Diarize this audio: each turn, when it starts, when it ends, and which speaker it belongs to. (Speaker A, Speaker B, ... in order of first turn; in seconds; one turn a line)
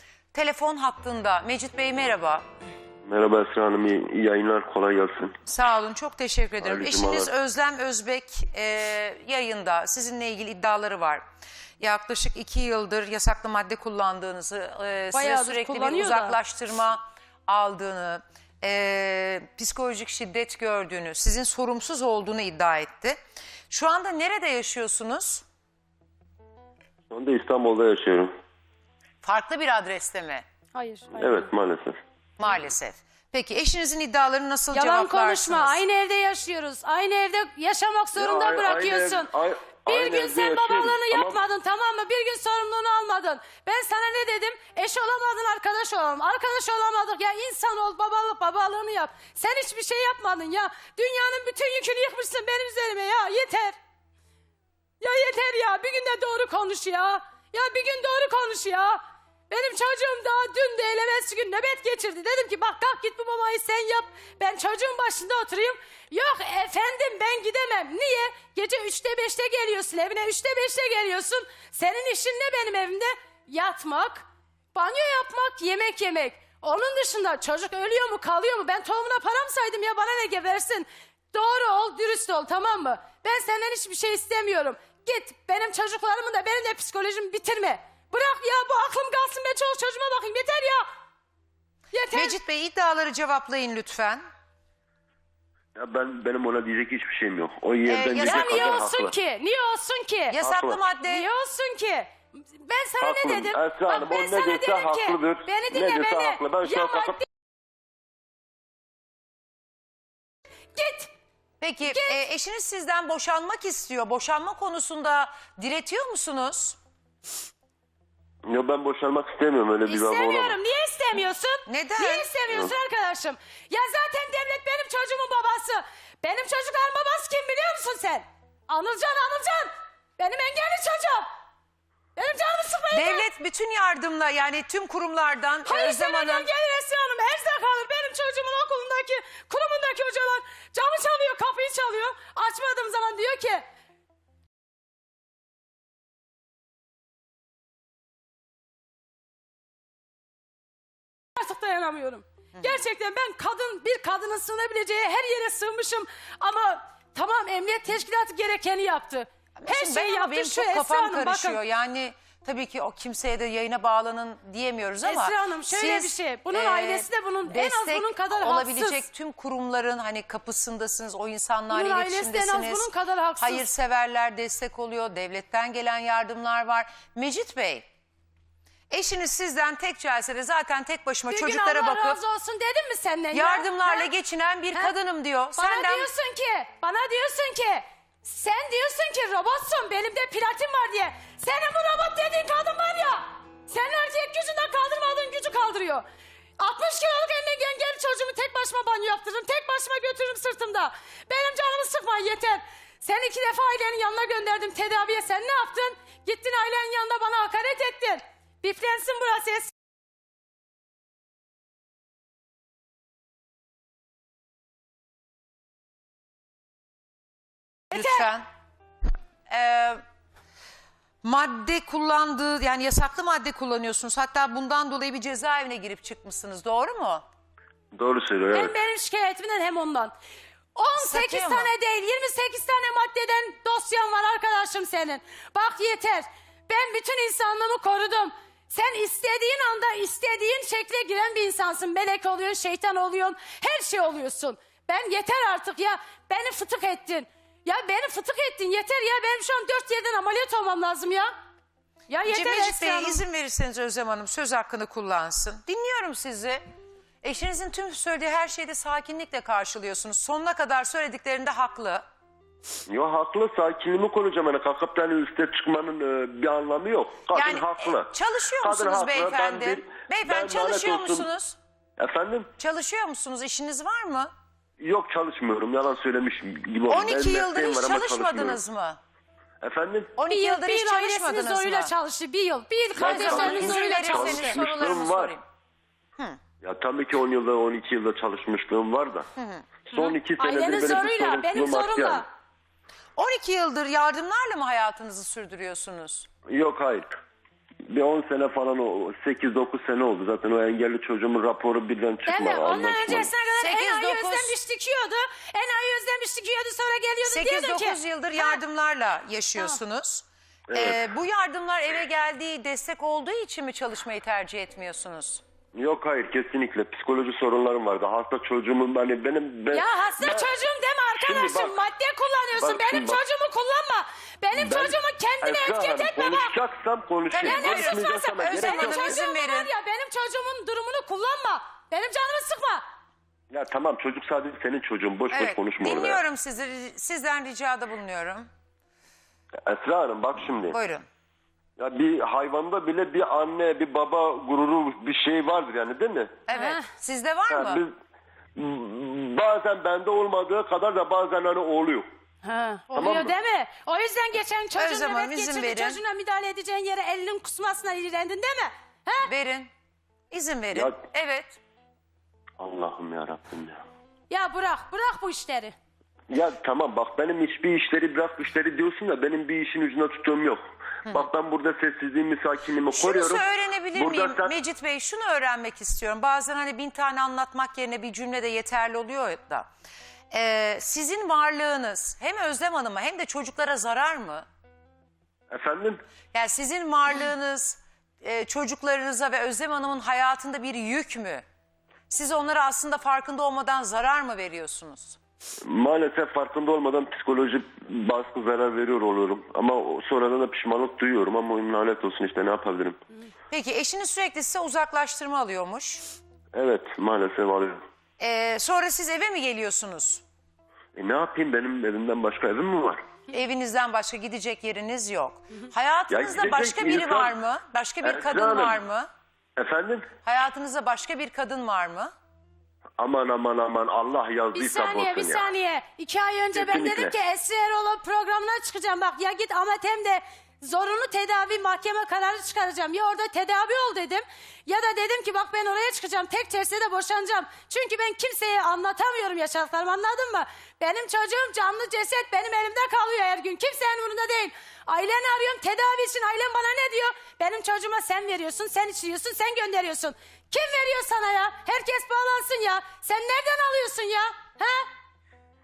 Speaker A: 0.3-2.4
Speaker B: 3.1-5.4
Speaker A: 5.5-11.2
Speaker B: 6.6-7.3
Speaker A: 11.8-23.2
Speaker C: 15.1-16.4
Speaker A: 23.7-25.4
Speaker B: 27.1-28.3
Speaker A: 29.2-30.4
Speaker C: 30.7-31.5
Speaker B: 31.1-32.0
Speaker A: 32.4-35.8
Speaker C: 34.7-39.3
Speaker B: 38.2-41.4
Speaker C: 39.9-53.8
Speaker C: 55.0-90.9
Speaker C: 91.9-92.4
Speaker A: 92.1-94.2
Speaker B: 95.8-99.2
Speaker A: 97.8-98.8
Speaker C: 98.2-100.4
Speaker A: 100.3-101.3
Speaker B: 100.4-100.8
Speaker C: 101.0-107.3
Speaker B: 103.0-107.2
Speaker C: 110.8-111.1
Speaker A: 111.6-116.8
Speaker C: 111.9-112.2
Speaker B: 118.5-120.6
Speaker C: 119.9-131.3
Speaker A: 121.7-122.3
Speaker C: 132.2-133.2
Speaker A: 132.9-136.5
Speaker C: 135.7-143.6
Speaker C: 151.3-161.6
Speaker A: 159.6-177.8
Speaker C: 165.0-169.1
Speaker C: 171.7-173.7
Speaker A: 178.9-182.2
Speaker C: 181.3-184.1
Speaker A: 183.3-186.1
Speaker C: 185.6-196.0
Speaker C: 196.6-209.7
Speaker C: 217.9-218.3
Speaker A: 217.9-218.5
Speaker A: 219.5-220.0
Speaker A: 221.2-227.2
Speaker B: 227.9-228.8
Speaker C: 228.5-230.1
Speaker C: 230.8-251.3
Speaker A: 231.0-231.7
Speaker C: 252.1-253.2
Speaker A: 252.2-256.6
Speaker A: 257.2-262.0
Speaker B: 262.9-271.3
Speaker A: 267.3-271.6
Speaker B: 272.0-272.5
Speaker A: 272.6-274.3
Speaker B: 274.8-278.6
Speaker A: 276.9-279.0
Speaker B: 279.6-280.1
Speaker A: 280.2-281.9
Speaker C: 280.3-284.6
Speaker B: 283.0-285.4
Speaker A: 283.0-285.4
Speaker B: 286.6-289.3
Speaker A: 289.4-289.6
Speaker B: 289.9-292.2
Speaker C: 289.9-292.3
Speaker A: 293.2-296.3
Speaker B: 296.5-297.1
Speaker B: 297.9-303.3
Speaker C: 302.3-308.6
Speaker A: 303.6-304.6
Speaker A: 307.2-315.4
Speaker B: 310.7-311.1
Speaker B: 315.8-320.5
Speaker C: 319.7-326.5
Speaker B: 321.2-321.8
Speaker B: 322.6-323.2
Speaker B: 324.6-329.2
Speaker A: 327.3-329.7
Speaker C: 327.4-332.8
Speaker B: 333.5-336.2
Speaker A: 335.3-338.5
Speaker B: 339.7-340.8
Speaker A: 340.7-341.1
Speaker B: 341.8-346.4
Speaker A: 346.5-347.8
Speaker C: 346.5-346.9
Speaker B: 347.5-347.9
Speaker B: 348.6-352.1
Speaker C: 352.4-359.3
Speaker B: 352.9-353.3
Speaker A: 354.8-356.0
Speaker A: 359.2-359.7
Speaker A: 360.3-361.6
Speaker B: 362.6-363.8
Speaker C: 364.3-365.8
Speaker B: 366.3-374.5
Speaker A: 372.9-379.7
Speaker A: 380.3-384.4
Speaker B: 385.5-386.0
Speaker A: 386.3-391.4
Speaker A: 392.1-395.2
Speaker B: 395.6-403.0
Speaker A: 403.5-406.0
Speaker B: 406.5-407.8
Speaker A: 408.2-410.2
Speaker B: 411.0-413.0
Speaker A: 413.3-419.1
Speaker B: 416.1-417.4
Speaker B: 418.0-418.8
Speaker B: 419.6-420.1
Speaker A: 420.2-422.1
Speaker B: 423.0-425.5
Speaker C: 424.5-454.9
Speaker B: 426.5-427.1